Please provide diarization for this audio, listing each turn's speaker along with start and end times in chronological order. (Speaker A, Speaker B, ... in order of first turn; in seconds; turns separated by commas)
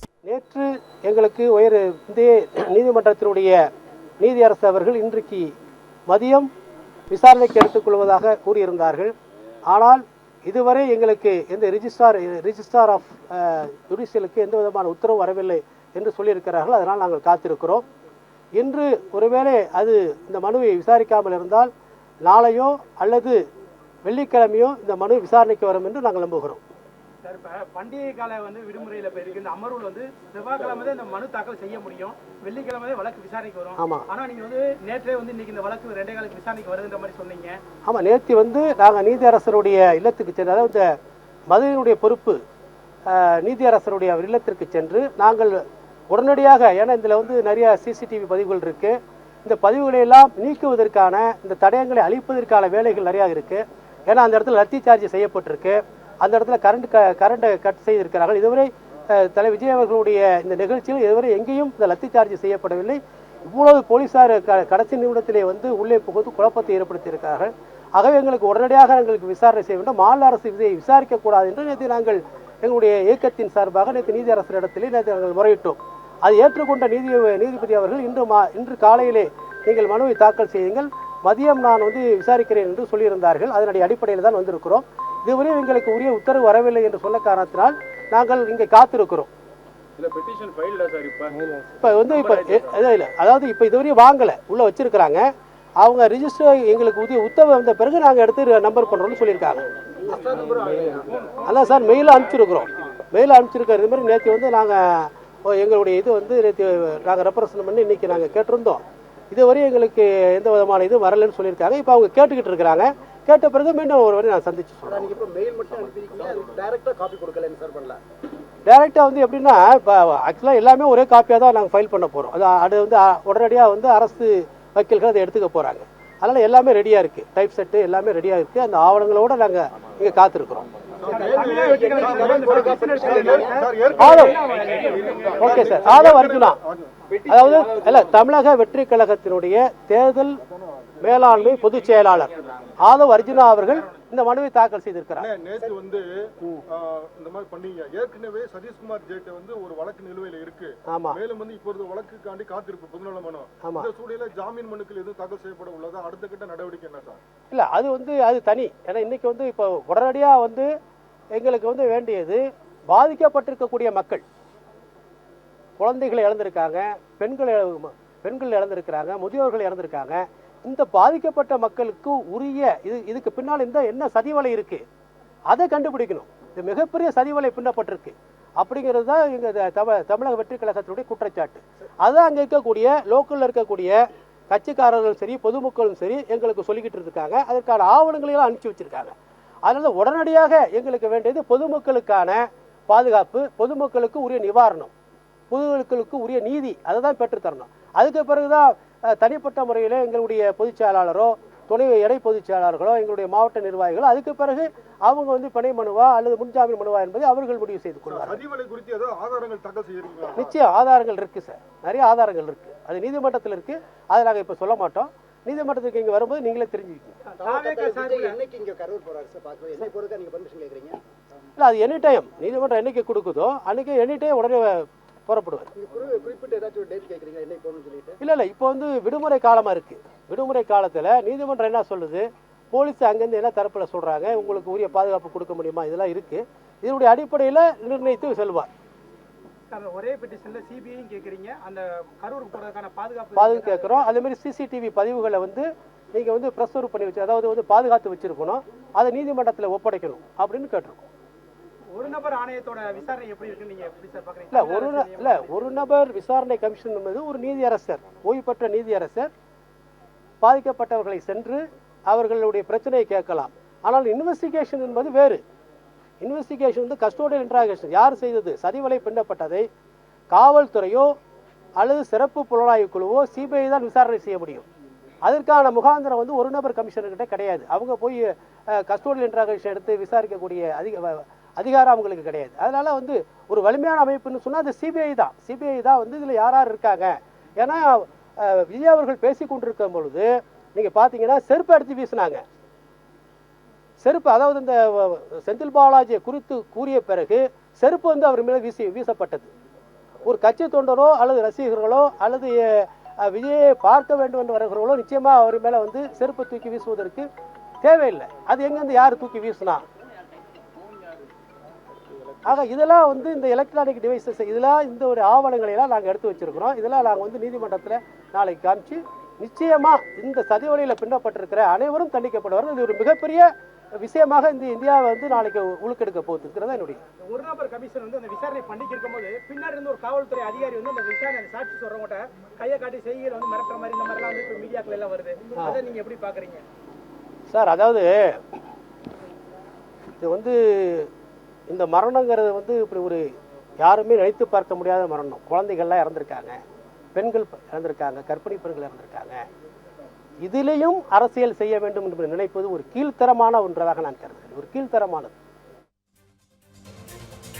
Speaker A: 0.2-3.6, Speaker A: 4.2-5.5, Speaker A: 6.1-6.5, Speaker A: 7.1-9.1, Speaker A: 9.7-17.8, Speaker A: 18.6-21.7, Speaker A: 22.2-23.4, Speaker A: 24.0-26.6, Speaker B: 27.2-37.6, Speaker A: 33.8-34.1, Speaker A: 37.9-40.9, Speaker A: 41.5-42.4, Speaker A: 43.0-89.3, Speaker C: 90.0-91.6, Speaker A: 91.8-95.3, Speaker C: 92.1-92.8, Speaker A: 95.8-99.7, Speaker D: 100.0-101.3, Speaker C: 100.6-101.0, Speaker B: 101.1-101.9, Speaker A: 101.4-115.2, Speaker D: 114.9-118.0, Speaker A: 118.7-130.7, Speaker E: 131.0-137.0, Speaker B: 131.0-135.6, Speaker D: 131.1-133.7, Speaker A: 134.0-134.4, Speaker C: 134.6-135.0, Speaker A: 135.4-136.6, Speaker C: 137.1-138.0, Speaker A: 137.3-140.4, Speaker E: 140.4-141.2, Speaker A: 141.0-145.3, Speaker B: 143.4-143.9, Speaker E: 145.2-157.2, Speaker A: 150.9-151.2, Speaker A: 153.6-153.9, Speaker A: 157.5-160.7, Speaker A: 161.3-164.2, Speaker A: 165.8-174.8, Speaker A: 175.5-184.0, Speaker A: 184.5-189.2, Speaker A: 189.7-194.9, Speaker A: 195.5-208.4, Speaker E: 208.1-210.5, Speaker A: 210.3-217.2, Speaker B: 217.2-218.4, Speaker D: 217.4-221.0, Speaker A: 221.6-225.7, Speaker D: 225.8-228.2, Speaker A: 228.2-238.7, Speaker B: 239.7-244.1, Speaker A: 243.3-251.1, Speaker B: 251.9-255.5, Speaker A: 254.5-259.3, Speaker A: 260.4-265.4, Speaker A: 266.2-269.7, Speaker A: 270.3-271.1, Speaker A: 271.8-274.7, Speaker A: 275.3-292.4, Speaker A: 294.0-299.5, Speaker A: 300.2-307.3, Speaker A: 307.8-309.8, Speaker A: 312.4-327.0, Speaker B: 327.2-336.6, Speaker A: 337.5-338.6, Speaker A: 340.2-341.1, Speaker A: 341.7-343.3, Speaker A: 343.8-346.6, Speaker A: 347.1-349.4, Speaker A: 350.4-355.3